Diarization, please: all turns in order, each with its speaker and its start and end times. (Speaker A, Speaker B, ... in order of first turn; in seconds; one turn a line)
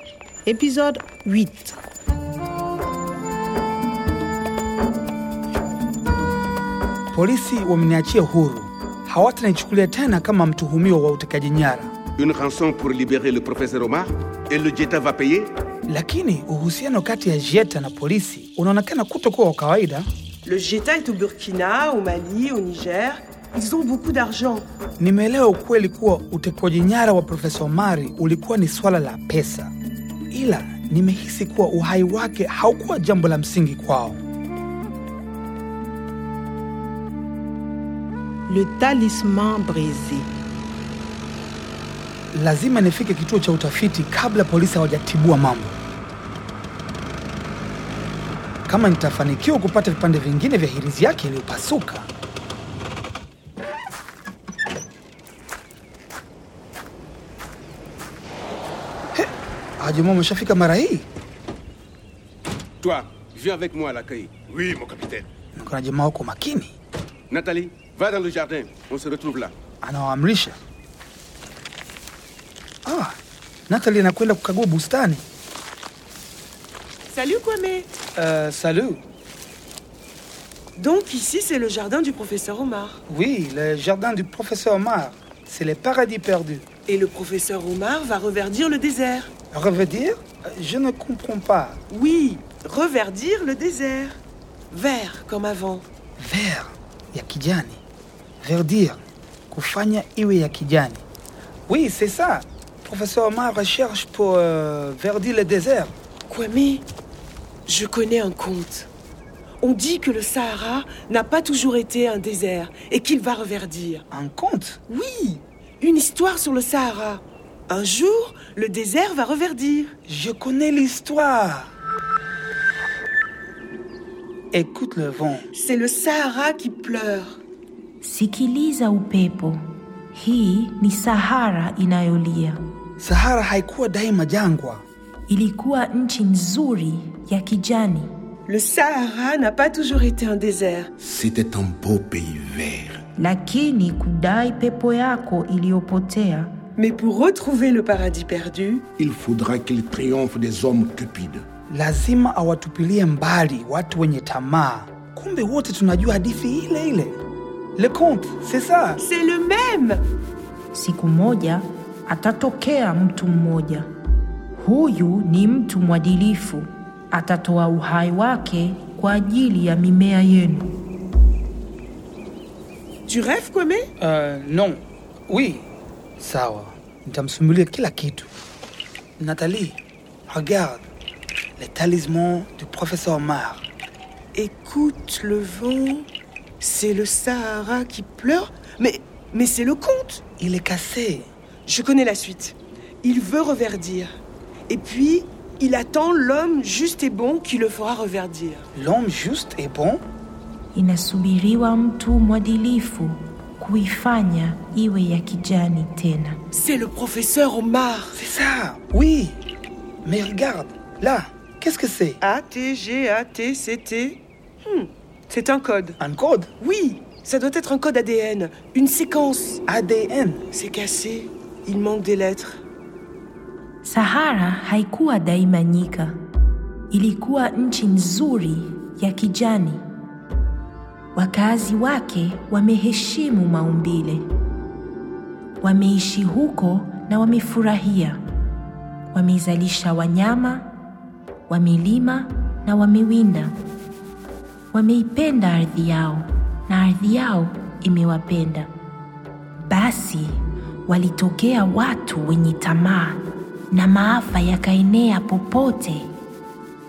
Speaker A: 0.5-1.8
Speaker B: 7.1-11.9
Speaker C: 12.2-15.5
Speaker B: 15.9-20.1
Speaker D: 20.4-24.6
Speaker B: 25.0-29.7
Speaker B: 30.3-34.2
Speaker A: 38.5-40.3
Speaker B: 42.3-45.8
Speaker B: 48.7-52.1
Speaker B: 59.1-61.1
Speaker C: 62.8-65.2
Speaker B: 65.5-66.7
Speaker C: 67.3-69.5
Speaker B: 69.8-70.6
Speaker B: 72.8-73.2
Speaker B: 73.7-75.2
Speaker D: 77.1-77.9
Speaker B: 78.2-79.0
Speaker D: 80.8-83.0
Speaker B: 83.1-86.6
Speaker D: 86.9-89.3
Speaker B: 89.5-91.8
Speaker D: 91.9-94.2
Speaker D: 94.7-95.8
Speaker B: 96.2-97.8
Speaker B: 98.4-101.0
Speaker B: 101.7-105.9
Speaker D: 106.3-106.8
Speaker D: 107.7-108.9
Speaker D: 109.6-114.0
Speaker B: 114.1-114.8
Speaker D: 114.9-119.9
Speaker B: 120.1-121.7
Speaker B: 124.5-125.5
Speaker D: 125.5-127.4
Speaker E: 128.0-129.6
Speaker E: 130.1-132.6
Speaker B: 133.0-134.8
Speaker E: 135.3-138.1
Speaker D: 138.5-140.9
Speaker F: 141.0-143.0
Speaker E: 143.2-146.5
Speaker D: 146.8-148.8
Speaker F: 149.0-151.4
Speaker B: 151.7-157.2
Speaker B: 157.8-159.0
Speaker D: 159.0-160.0
Speaker E: 160.7-163.9
Speaker E: 164.6-170.7
Speaker D: 173.1-173.9
Speaker B: 174.0-175.7
Speaker B: 176.2-178.3
Speaker B: 179.2-180.9
Speaker B: 181.6-183.7
Speaker D: 184.3-186.1
Speaker D: 186.6-190.2
Speaker B: 190.4-191.3
Speaker D: 191.7-194.1
Speaker D: 194.7-198.6
Speaker B: 198.7-200.0
Speaker E: 200.7-206.4
Speaker D: 206.5-208.2
Speaker B: 208.1-209.4
Speaker B: 210.0-212.2
Speaker D: 212.2-215.9
Speaker B: 216.0-216.5
Speaker D: 216.6-219.6
Speaker B: 219.7-220.4
Speaker D: 220.5-222.6
Speaker E: 223.8-226.2
Speaker E: 226.9-229.8
Speaker E: 231.1-234.2
Speaker E: 235.6-238.2
Speaker E: 239.1-240.7
Speaker E: 241.5-243.5
Speaker E: 244.7-248.7
Speaker E: 249.6-250.3
Speaker E: 250.9-256.1